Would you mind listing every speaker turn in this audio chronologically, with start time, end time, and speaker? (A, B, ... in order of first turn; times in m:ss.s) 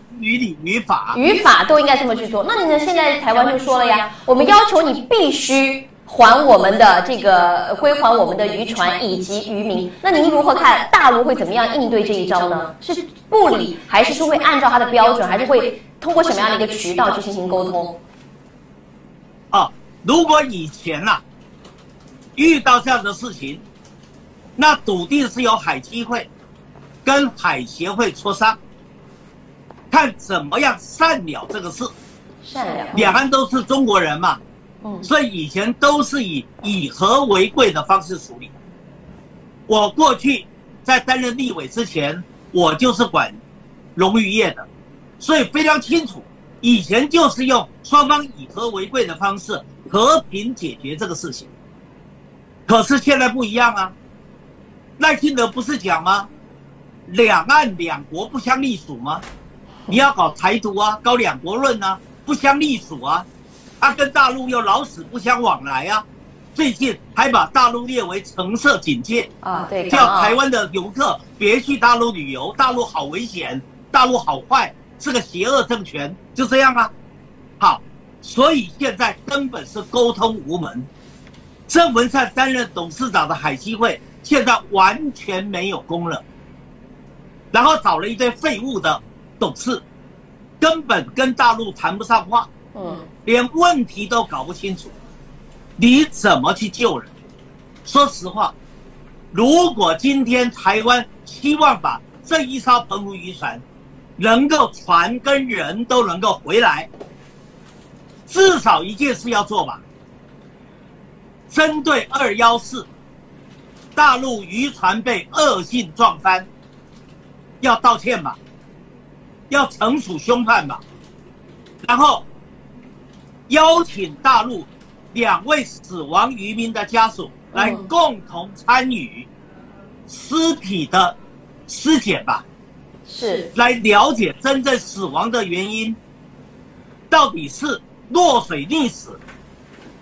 0:00.1-0:01.2 A
0:01.1-0:18.0 B
0:19.5-0:21.2 A
0:22.4-0:23.6 A
0:24.6-0:26.3 A
0:27.0-0:28.6 A
0:29.9-0:31.9 A
0:32.4-0:33.2 B
0:32.9-0:34.4 A
0:34.8-0:35.1 B
0:35.0-0:38.5 A
0:39.7-0:43.4 A
0:44.0-0:44.7 A
0:45.2-0:51.5 A
0:52.7-0:54.0 A
0:55.0-0:56.3 A
0:57.1-0:59.2 A
0:59.9-1:03.3 A
1:03.8-1:09.3 A
1:09.4-1:10.4 B
1:09.9-1:16.9 A
1:17.6-1:20.9 A
1:21.7-1:26.2 A
1:27.5-1:29.8 A
1:30.6-1:32.5 A
1:32.8-1:33.0 B
1:33.2-1:35.0 A
1:35.8-1:37.1 A
1:37.8-1:38.5 A
1:39.3-1:43.6 A
1:44.2-1:46.9 A
1:48.3-1:49.8 A
1:51.5-1:52.9 A
1:54.0-1:56.5 A
1:57.6-1:58.4 A
1:59.5-2:00.8 A
2:01.8-2:02.3 A
2:03.5-2:09.3 A
2:07.5-2:07.9 B
2:10.1-2:11.2 A
2:11.7-2:12.4 A
2:13.1-2:13.5 B
2:13.6-2:16.0 A
2:17.1-2:19.2 A